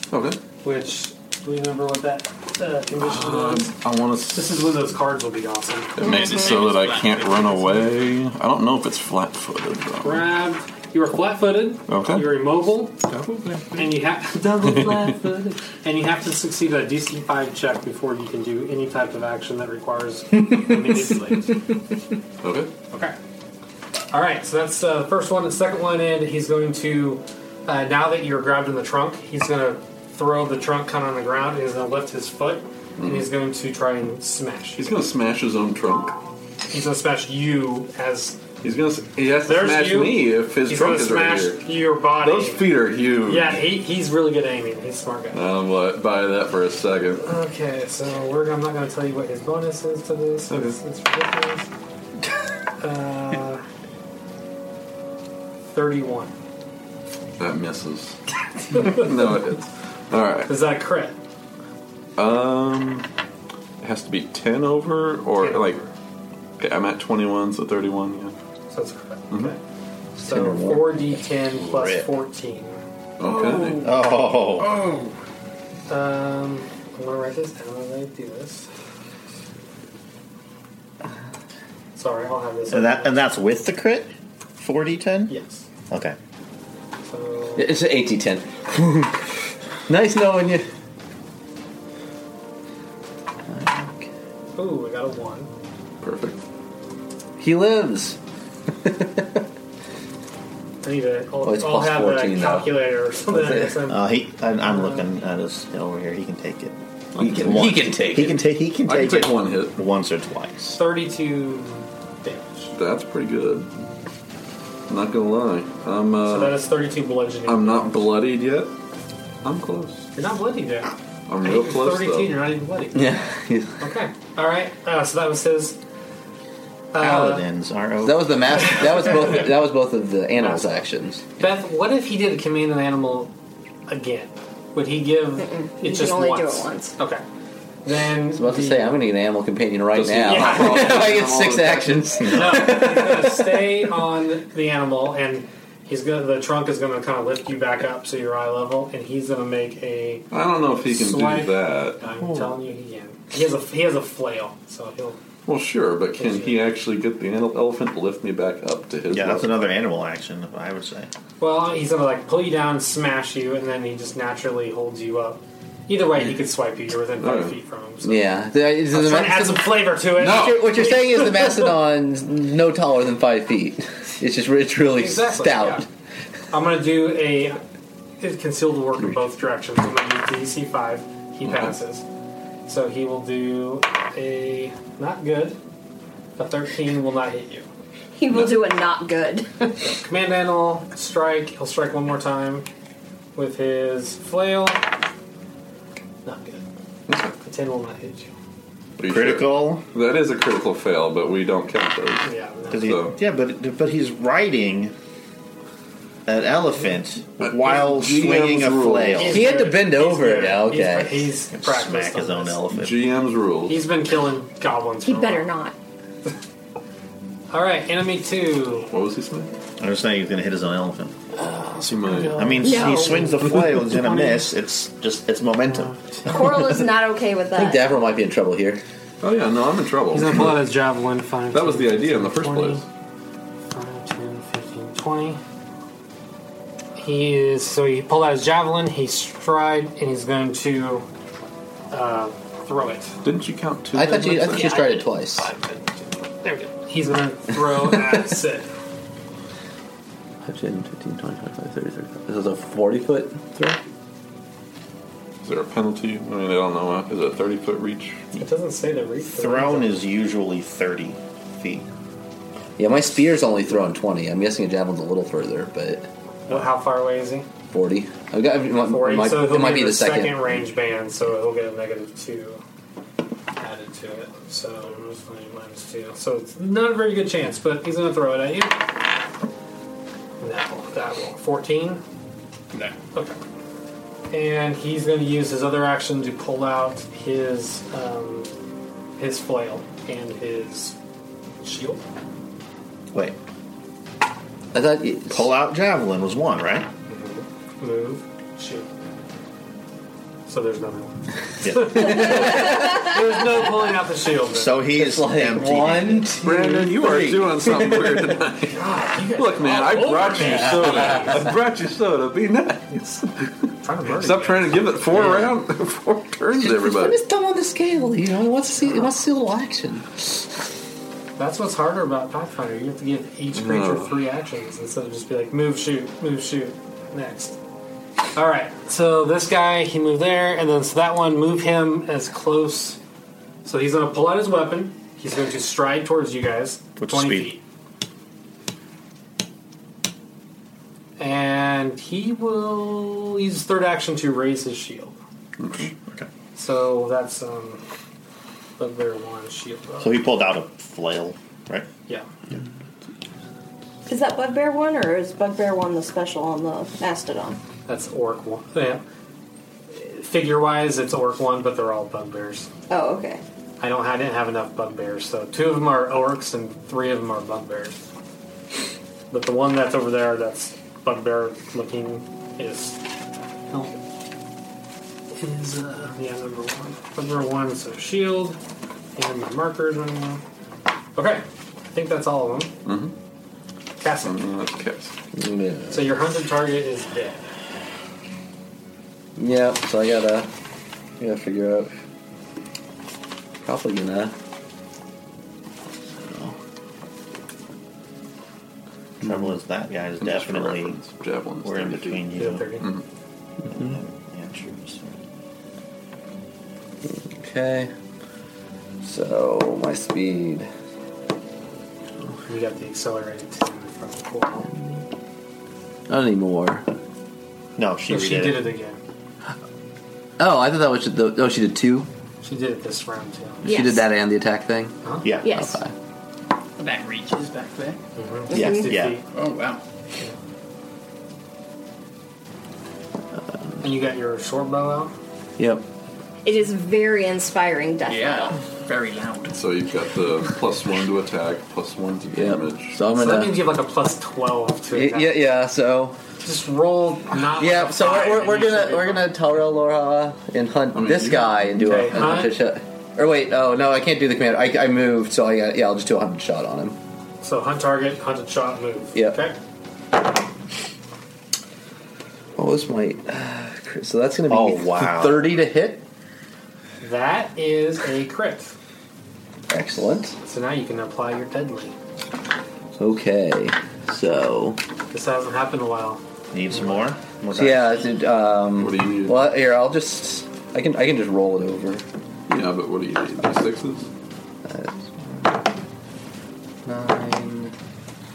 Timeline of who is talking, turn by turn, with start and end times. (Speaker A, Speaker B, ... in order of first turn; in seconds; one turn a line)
Speaker A: 0.1-0.4
Speaker B: 0.6-3.7
Speaker A: 3.0-4.8
Speaker B: 4.3-6.1
Speaker A: 6.0-10.2
Speaker C: 6.0-7.8
Speaker B: 10.0-13.0
Speaker A: 11.9-12.3
Speaker A: 13.1-13.7
Speaker B: 13.7-21.6
Speaker A: 14.8-15.0
Speaker A: 22.4-22.7
Speaker B: 24.1-34.9
Speaker A: 33.0-33.3
Speaker A: 34.8-36.1
Speaker B: 36.7-38.4
Speaker A: 38.6-41.7
Speaker B: 39.4-42.6
Speaker A: 42.2-43.7
Speaker B: 43.2-45.4
Speaker A: 45.3-47.2
Speaker B: 47.2-51.7
Speaker A: 50.5-50.8
Speaker B: 52.8-53.6
Speaker B: 55.7-56.3
Speaker A: 57.4-58.2
Speaker B: 58.7-59.1
Speaker A: 58.7-60.5
Speaker B: 60.5-61.1
Speaker A: 62.2-63.0
Speaker A: 63.8-65.8
Speaker B: 65.4-65.9
Speaker A: 66.6-68.3
Speaker B: 68.7-69.6
Speaker D: 70.2-71.0
Speaker B: 70.2-72.8
Speaker E: 71.6-72.0
Speaker A: 73.2-73.8
Speaker E: 73.8-74.8
Speaker B: 75.9-78.7
Speaker B: 81.9-83.2
Speaker E: 82.7-85.3
Speaker B: 85.3-85.7
Speaker E: 85.9-86.2
Speaker B: 87.0-87.7
Speaker D: 87.5-89.2
Speaker D: 89.9-90.7
Speaker D: 93.5-94.1
Speaker B: 94.5-95.5
Speaker A: 96.0-96.4
Speaker D: 97.4-98.2
Speaker D: 98.8-99.4
Speaker B: 100.8-104.0
Speaker D: 101.4-102.7
Speaker D: 103.3-103.8
Speaker E: 103.9-110.8
Speaker B: 104.6-105.1
Speaker A: 107.2-107.8
Speaker D: 107.2-108.4
Speaker A: 108.8-109.8
Speaker B: 110.7-112.7
Speaker A: 112.7-113.7
Speaker A: 114.9-116.6
Speaker B: 116.2-118.0
Speaker A: 117.5-118.7
Speaker A: 119.4-120.1
Speaker B: 120.1-123.2
Speaker A: 121.3-122.4
Speaker D: 122.9-123.8
Speaker B: 123.8-125.8
Speaker B: 126.9-127.4
Speaker E: 127.0-128.7
Speaker D: 128.0-131.2
Speaker B: 130.4-130.8
Speaker B: 131.4-133.3
Speaker B: 133.9-137.2
Speaker F: 135.4-136.9
Speaker B: 137.8-139.0
Speaker D: 138.3-143.8
Speaker A: 139.9-142.4
Speaker B: 140.2-141.1
Speaker B: 142.3-150.3
Speaker A: 150.3-152.0
Speaker B: 150.9-155.2
Speaker D: 152.2-152.5
Speaker A: 155.4-159.5
Speaker B: 156.2-156.6
Speaker E: 159.1-161.1
Speaker B: 161.4-168.2
Speaker A: 167.2-167.5
Speaker D: 168.0-175.8
Speaker B: 168.9-171.7
Speaker A: 170.2-171.2
Speaker B: 174.8-175.8
Speaker B: 176.5-177.6
Speaker B: 178.2-182.0
Speaker A: 181.4-181.7
Speaker B: 182.7-185.6
Speaker B: 186.4-187.7
Speaker F: 188.2-189.9
Speaker B: 189.9-192.7
Speaker B: 193.3-194.9
Speaker B: 196.2-196.6
Speaker A: 197.1-197.3
Speaker B: 197.4-198.3
Speaker A: 199.0-203.2
Speaker E: 199.0-199.8
Speaker B: 202.2-202.9
Speaker E: 202.7-204.9
Speaker E: 206.2-209.5
Speaker A: 207.4-209.4
Speaker B: 209.2-212.6
Speaker D: 209.3-211.3
Speaker E: 211.5-213.1
Speaker A: 212.8-213.8
Speaker B: 213.7-215.5
Speaker F: 215.0-215.7
Speaker B: 217.5-218.9
Speaker A: 218.9-219.5
Speaker E: 219.8-221.1
Speaker B: 221.3-224.5
Speaker A: 221.8-222.7
Speaker E: 222.3-226.1
Speaker F: 222.6-223.3
Speaker B: 225.7-226.3
Speaker F: 226.2-227.8
Speaker D: 227.5-228.8
Speaker A: 229.2-230.6
Speaker B: 230.1-232.8
Speaker A: 231.5-232.8
Speaker B: 233.7-235.4
Speaker B: 237.0-241.1
Speaker B: 241.9-243.1
Speaker A: 243.2-244.8
Speaker D: 243.9-245.5
Speaker B: 244.6-248.7
Speaker D: 247.8-248.2
Speaker D: 250.4-253.8
Speaker A: 255.4-258.2
Speaker B: 258.4-259.9
Speaker E: 259.3-261.9
Speaker D: 262.8-266.1
Speaker B: 266.5-267.5
Speaker D: 267.7-270.5
Speaker B: 268.8-272.6
Speaker B: 273.6-278.9
Speaker B: 280.4-282.0
Speaker B: 284.3-288.5
Speaker B: 289.2-290.9
Speaker B: 291.6-292.0
Speaker D: 294.7-295.5
Speaker E: 295.3-296.9
Speaker B: 297.1-298.9
Speaker B: 300.4-304.7
Speaker E: 301.6-302.1
Speaker D: 301.9-303.2
Speaker E: 304.4-306.3
Speaker D: 304.9-308.4
Speaker A: 306.4-313.5
Speaker B: 308.7-309.4
Speaker C: 308.9-311.3
Speaker B: 310.5-311.4
Speaker D: 310.6-311.0
Speaker B: 313.8-314.9
Speaker A: 314.1-317.2
Speaker D: 315.1-315.5
Speaker D: 316.6-320.4
Speaker B: 321.4-327.6
Speaker A: 323.5-324.1
Speaker B: 328.3-333.0
Speaker B: 333.6-337.6
Speaker E: 337.0-337.5
Speaker B: 341.2-345.2
Speaker A: 345.6-345.9
Speaker B: 346.6-347.8
Speaker B: 348.8-350.2
Speaker E: 350.0-351.9
Speaker F: 354.1-357.6
Speaker B: 357.9-359.0
Speaker B: 359.9-362.7
Speaker F: 362.9-363.4
Speaker B: 363.8-368.0
Speaker B: 369.3-373.0
Speaker B: 373.7-373.9
Speaker B: 375.3-378.6
Speaker B: 379.1-380.4
Speaker B: 381.1-382.7
Speaker A: 382.8-383.1
Speaker B: 384.0-384.4
Speaker A: 384.2-385.1
Speaker D: 385.3-386.1
Speaker B: 385.9-387.4
Speaker D: 389.4-390.5
Speaker D: 391.2-391.9
Speaker D: 393.6-394.3
Speaker D: 396.1-396.6
Speaker E: 399.2-401.0
Speaker A: 400.2-402.3
Speaker E: 401.6-402.7
Speaker B: 402.3-402.9
Speaker E: 403.7-405.1
Speaker D: 407.0-407.9
Speaker D: 409.0-410.7
Speaker B: 412.4-414.7
Speaker D: 416.1-416.9
Speaker E: 417.8-418.7
Speaker B: 418.1-419.0
Speaker D: 420.4-422.1
Speaker B: 422.4-423.6
Speaker F: 423.6-424.1
Speaker D: 423.6-425.9
Speaker B: 425.0-425.3
Speaker E: 425.2-425.6
Speaker F: 425.4-425.8
Speaker C: 426.8-428.0
Speaker B: 428.1-429.2
Speaker F: 428.5-428.9
Speaker E: 428.5-429.2
Speaker C: 429.3-429.8
Speaker D: 433.4-433.8
Speaker B: 433.8-435.1
Speaker D: 435.6-435.8
Speaker F: 436.4-438.6
Speaker C: 438.1-439.6
Speaker A: 439.5-442.9
Speaker D: 442.3-443.7
Speaker B: 443.1-445.4
Speaker D: 444.9-446.2
Speaker B: 446.4-449.3
Speaker D: 447.5-457.0
Speaker A: 450.9-451.5
Speaker B: 451.8-452.6
Speaker B: 457.4-459.6
Speaker D: 459.1-459.4
Speaker D: 462.6-466.0
Speaker E: 464.5-465.4
Speaker B: 467.0-468.7
Speaker D: 469.7-470.4
Speaker B: 470.4-471.9
Speaker D: 472.9-474.8
Speaker B: 475.1-477.1
Speaker E: 476.5-478.0
Speaker D: 477.5-482.0
Speaker A: 478.8-479.4
Speaker A: 482.5-484.1
Speaker D: 484.6-485.6
Speaker D: 486.9-487.7